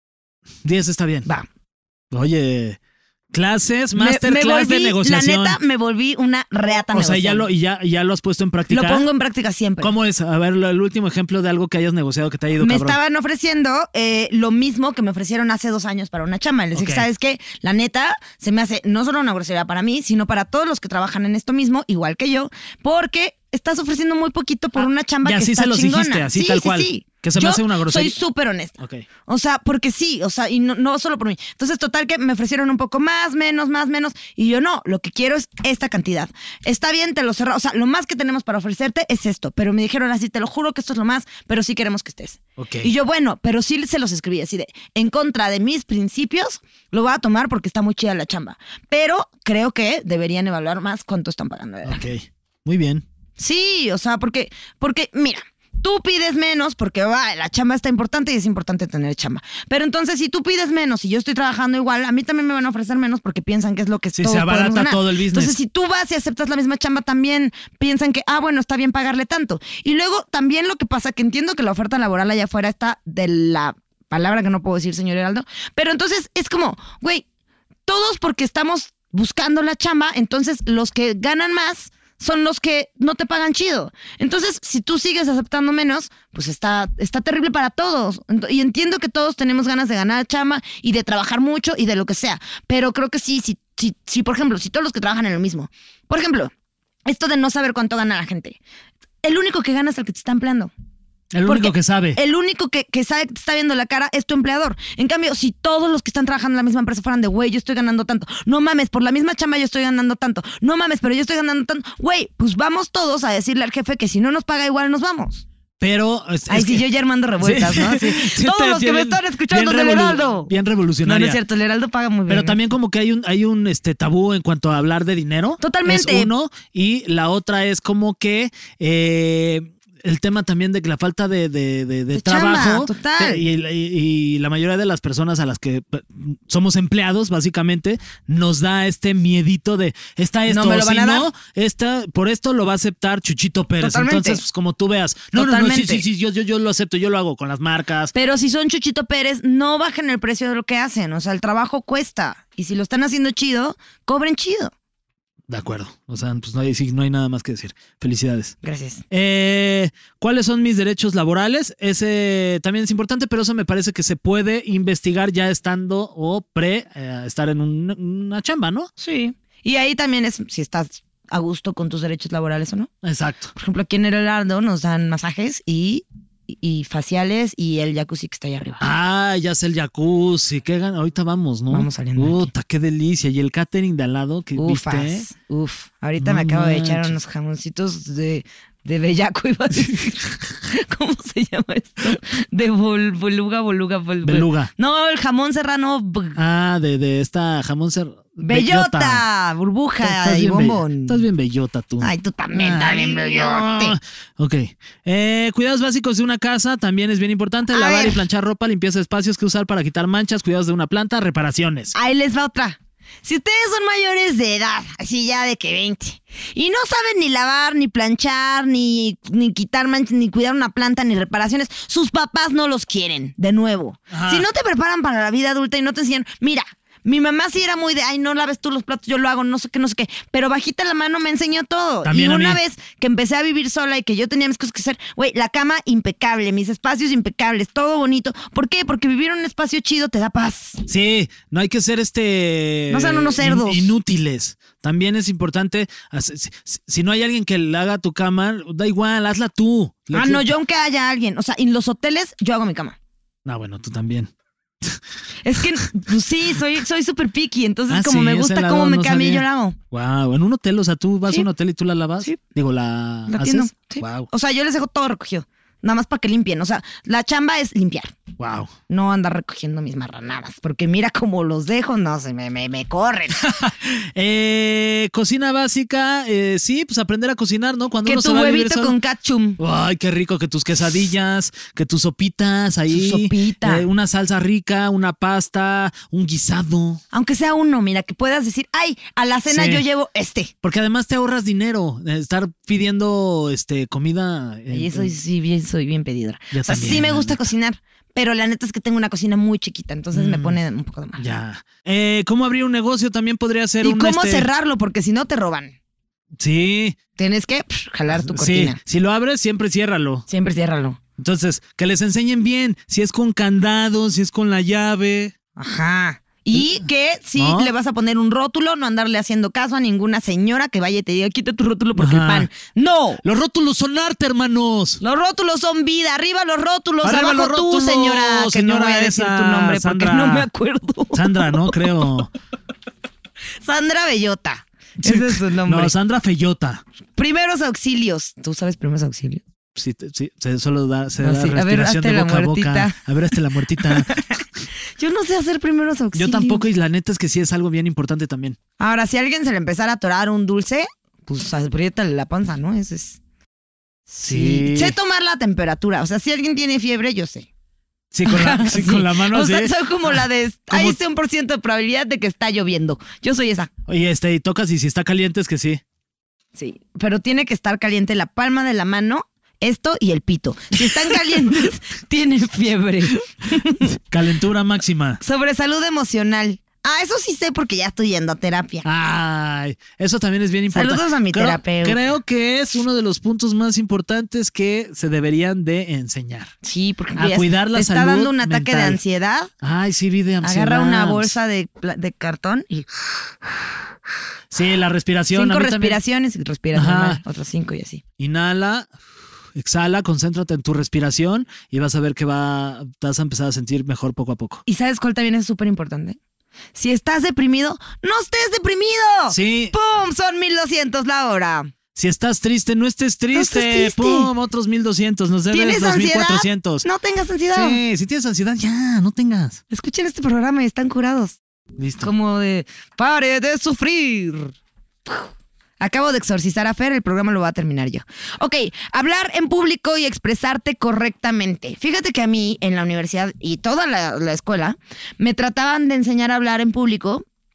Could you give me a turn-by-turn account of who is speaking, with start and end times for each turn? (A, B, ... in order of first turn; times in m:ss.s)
0:00.6-0:01.3 A
0:02.1-0:02.8 A
0:03.3-0:05.6 A
0:03.9-0:07.5 B
0:06.9-0:09.1 A
0:08.7-0:09.9 B
0:09.8-0:13.0 A
0:12.6-0:28.8 B
0:16.7-0:17.1 A
0:25.2-0:28.2 A
0:28.8-0:29.0 A
0:29.3-0:52.0 B
0:42.6-0:42.9 A
0:51.8-0:53.0 A
0:53.4-1:17.2 B
1:04.1-1:05.6 A
1:17.9-1:36.5 B
1:37.1-1:38.6 B
1:39.2-1:40.7 B
1:41.3-1:42.2 A
1:41.4-1:55.4 B
1:55.8-1:56.8 A
1:56.5-2:00.5 B
1:57.4-2:01.4 A
2:01.0-2:02.6 B
2:02.3-2:28.1 A
2:05.6-2:06.3 B
2:12.1-2:13.4 B
2:20.5-2:21.3 B
2:23.8-2:24.4 B
2:25.3-2:26.0 B
2:28.1-2:34.7 B
2:35.5-2:38.6 A
2:38.6-2:39.0 B
2:39.1-2:48.9 A
2:49.0-2:52.9 B
2:53.0-2:53.5 A
2:53.6-2:58.9 B
2:58.8-3:05.3 A
3:01.7-3:02.5 B
3:04.6-3:16.4 B
3:06.2-3:07.2 A
3:14.2-3:14.7 A
3:16.4-3:19.2 A
3:18.4-3:21.2 B
3:20.0-3:31.9 A
3:22.0-3:24.0 B
3:27.7-3:28.2 B
3:31.9-4:00.8 B
3:44.1-3:44.4 A
3:52.0-3:52.6 A
4:00.9-4:10.6 A
4:02.9-4:03.9 B
4:10.1-4:13.0 B
4:13.4-4:14.3 A
4:15.4-4:19.8 B
4:17.9-4:24.3 A
4:23.3-4:28.1 B
4:28.4-4:28.7 A
4:28.9-4:33.4 B
4:33.4-4:38.9 A
4:38.1-4:39.6 B
4:39.6-4:47.0 A
4:42.9-4:43.9 B
4:47.1-4:50.5 B
4:49.5-4:49.8 A
4:50.6-4:55.1 A
4:54.7-5:01.3 B
4:56.5-4:57.4 A
5:00.1-5:00.6 A
5:01.2-5:04.5 A
5:03.8-5:05.8 B
5:06.4-5:07.0 A
5:07.2-5:08.8 B
5:08.1-5:10.3 A
5:10.3-5:11.0 B
5:11.2-5:15.3 A
5:15.6-5:23.2 B
5:16.5-5:16.8 A
5:17.4-5:17.7 A
5:22.0-5:22.5 A
5:23.2-5:25.0 A
5:25.0-5:31.7 B
5:27.0-5:30.5 A
5:31.1-5:32.3 A
5:33.6-5:35.9 B
5:35.0-5:36.8 A
5:37.2-5:39.4 B
5:39.8-5:44.2 A
5:41.2-5:43.0 B
5:44.0-5:44.2 B
5:45.0-5:46.6 B
5:46.1-5:48.6 A
5:48.8-5:53.2 B
5:54.1-5:57.5 B
5:54.2-5:55.0 A
5:58.1-5:59.7 A
5:58.2-6:03.7 B
6:00.7-6:01.0 A
6:03.9-6:05.8 A
6:06.6-6:13.9 B
6:10.8-6:11.5 A
6:14.1-6:15.2 A
6:15.2-6:18.9 B
6:18.8-6:26.5 A
6:20.7-6:22.0 B
6:26.6-6:29.5 B
6:27.2-6:29.0 A
6:29.6-6:31.4 A
6:30.4-6:32.9 B
6:34.5-6:36.0 A
6:35.3-6:38.0 B
6:36.7-6:37.2 A
6:38.2-6:38.9 A
6:39.6-6:44.6 A
6:44.6-6:46.2 B
6:46.8-6:51.7 B
6:49.3-6:49.8 A
6:51.9-6:56.8 A
6:53.3-6:54.3 B
6:55.5-6:57.8 B
6:57.5-6:59.6 A
6:59.7-7:01.4 B
7:01.8-7:02.1 A
7:02.0-7:04.5 B
7:05.8-7:17.2 B